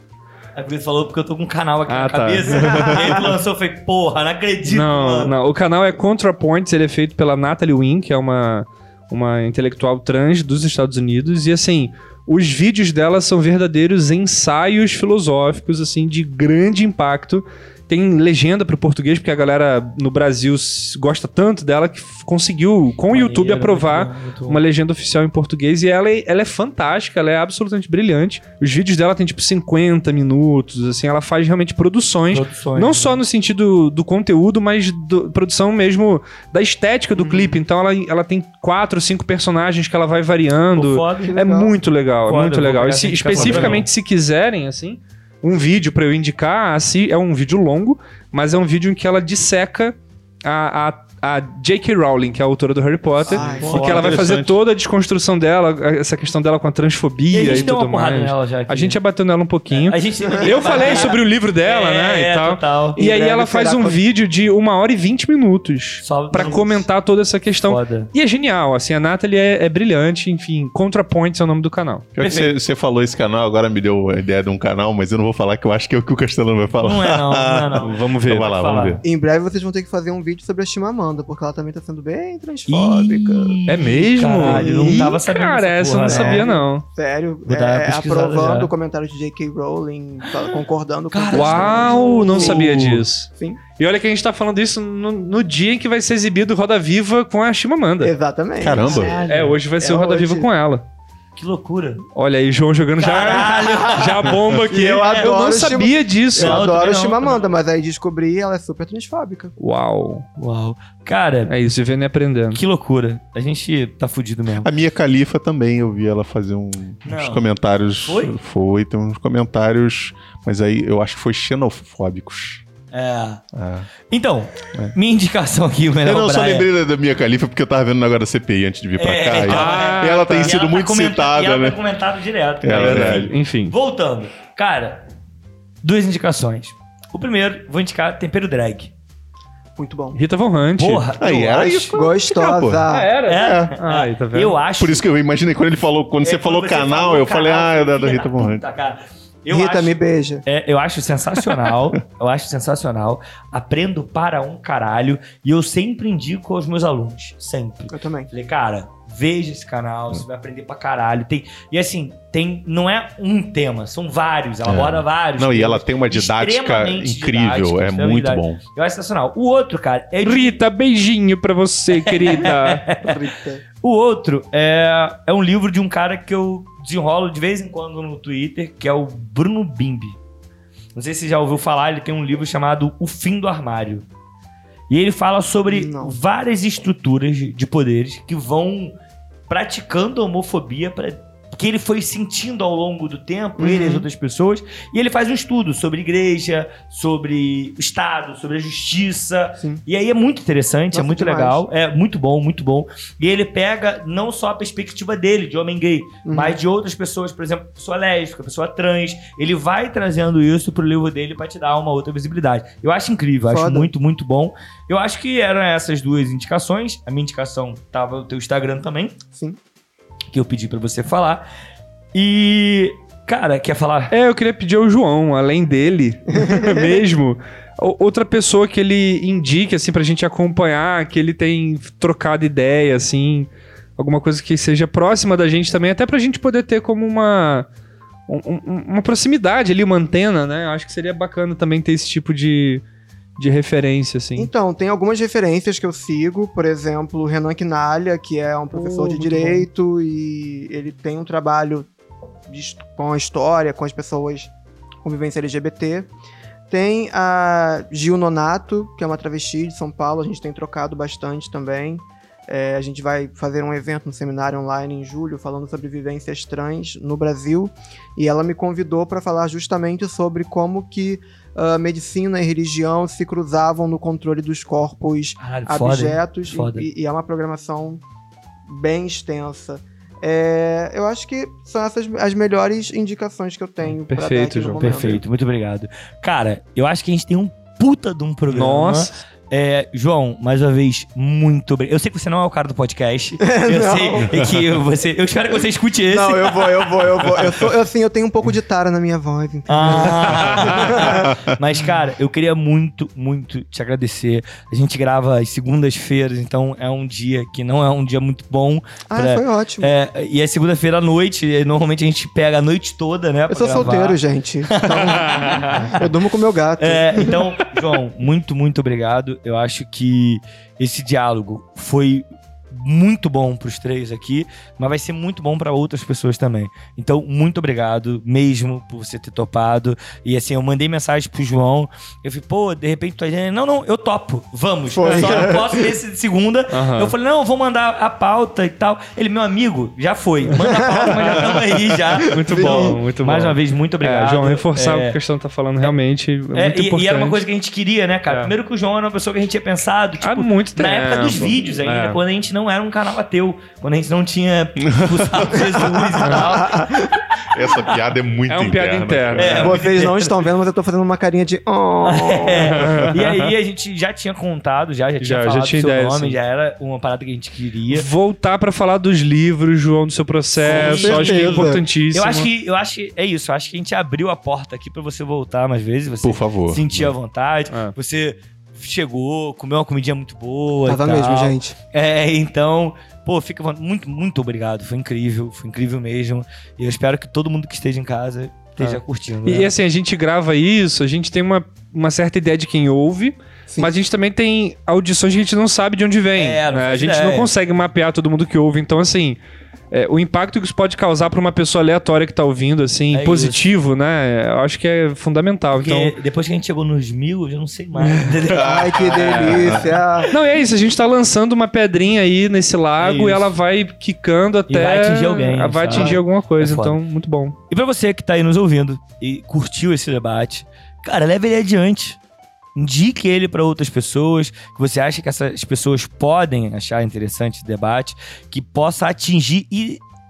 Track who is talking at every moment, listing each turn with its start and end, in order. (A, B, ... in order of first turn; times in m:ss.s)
0:00.6-0:05.3 A
0:01.9-0:03.3 B
0:02.7-0:03.0 C
0:04.7-1:12.1 B
0:23.1-0:24.6 A
0:32.3-0:33.2 A
0:37.1-0:37.6 C
0:40.7-0:41.4 A
0:41.3-0:41.7 C
0:42.3-0:43.9 A
0:43.4-0:43.8 C
0:53.2-0:54.2 C
0:53.2-0:54.6 A
0:57.3-0:59.0 A
0:59.7-1:03.0 A
1:00.2-1:01.1 C
1:03.0-1:04.0 C
1:06.0-1:06.9 A
1:07.7-1:08.1 A
1:12.2-1:19.0 D
1:12.2-1:12.5 A
1:16.8-1:19.0 A
1:17.8-1:18.5 B
1:19.0-1:23.6 C
1:22.7-1:26.5 A
1:23.7-1:26.8 B
1:24.4-1:25.2 C
1:26.0-1:33.6 C
1:27.5-1:28.7 A
1:30.2-1:30.6 A
1:31.1-1:32.7 A
1:31.3-1:38.1 B
1:38.0-1:39.2 C
1:38.6-1:39.2 D
1:38.7-1:39.6 A
1:39.2-1:40.8 B
1:39.8-1:40.5 C
1:41.4-1:42.0 A
1:42.2-1:46.7 B
1:43.0-1:44.3 A
1:43.6-1:44.1 C
1:44.7-1:49.5 C
1:45.0-1:45.3 A
1:46.4-1:47.5 A
1:49.6-1:50.3 B
1:50.4-1:51.5 A
1:51.5-1:52.6 B
1:52.5-1:54.7 A
1:54.6-2:02.6 D
1:57.0-1:57.4 A
1:58.0-1:58.4 A
2:02.9-2:03.4 A
2:03.5-2:03.9 D
2:04.1-2:06.7 A
2:06.0-2:11.8 D
2:09.0-2:15.0 A
2:09.4-2:10.5 B
2:12.6-2:13.3 D
2:12.7-2:13.7 B
2:15.8-2:18.9 A
2:19.8-2:20.2 C
2:20.1-2:21.1 B
2:20.8-2:22.0 A
2:21.2-2:22.9 D
2:21.9-2:23.1 C
2:22.9-2:24.6 B
2:23.2-2:25.0 A
2:23.4-2:23.7 D
2:24.8-2:28.6 D
2:26.2-2:50.6 A
2:29.5-2:30.4 C
2:31.4-2:32.0 D
2:37.9-2:38.3 C
2:44.7-2:48.6 D
2:50.2-2:52.9 B
2:51.9-2:53.1 A
2:53.0-2:53.6 C
2:53.8-3:00.2 A
3:01.0-3:04.1 A
3:04.9-3:09.0 A
3:05.7-3:06.2 C
3:09.5-3:39.2 A
3:13.6-3:14.1 C
3:20.9-3:21.6 C
3:26.2-3:26.6 C
3:33.5-3:33.9 C
3:39.3-3:39.6 C
3:40.3-3:41.4 A
3:42.1-3:44.1 A
3:44.1-3:57.7 B
3:46.3-3:47.0 C
3:58.3-4:02.8 B
4:03.4-4:04.5 B
4:04.4-4:11.9 C
4:08.7-4:09.7 B
4:12.5-4:14.5 C
4:15.0-4:16.1 C
4:16.7-4:38.0 C
4:35.4-4:36.9 A
4:38.7-4:45.2 C
4:44.1-4:45.2 B
4:44.8-4:57.7 A
4:48.5-4:49.2 B
4:53.4-4:54.3 C
4:56.1-5:01.4 C
4:59.7-5:16.0 A
5:00.0-5:00.9 B
5:01.2-5:01.6 D
5:09.1-5:09.9 C
5:13.5-5:17.4 C
5:15.0-5:15.8 B
5:16.8-5:45.2 A
5:34.9-5:35.9 C
5:36.7-5:37.1 B
5:40.5-5:41.6 C
5:41.2-5:41.5 B
5:42.2-5:47.4 B
5:42.2-5:43.0 C
5:46.5-5:56.9 A
5:48.3-5:48.5 B
5:50.2-5:52.2 B
5:54.8-5:55.7 D
5:55.7-5:57.3 C
5:57.4-5:59.8 D
5:58.5-5:59.8 B
5:59.4-6:00.4 A
5:59.6-6:02.9 C
6:02.0-6:08.1 A
6:02.7-6:03.5 B
6:05.2-6:06.4 B
6:07.9-6:12.5 B
6:10.6-6:29.7 A
6:10.7-6:11.8 C
6:16.2-6:17.1 D
6:20.9-6:21.8 C
6:28.8-6:39.4 B
6:33.7-6:34.0 C
6:36.4-6:37.5 A
6:39.9-6:46.1 B
6:43.1-6:43.6 A
6:45.7-6:49.8 A
6:48.2-6:50.3 C
6:48.5-6:50.0 D
6:49.1-6:49.8 B
6:50.3-6:57.6 B
6:53.0-6:53.5 A
6:54.7-6:57.0 A
6:55.9-6:56.2 C
6:57.7-7:02.2 A
7:02.8-7:10.0 A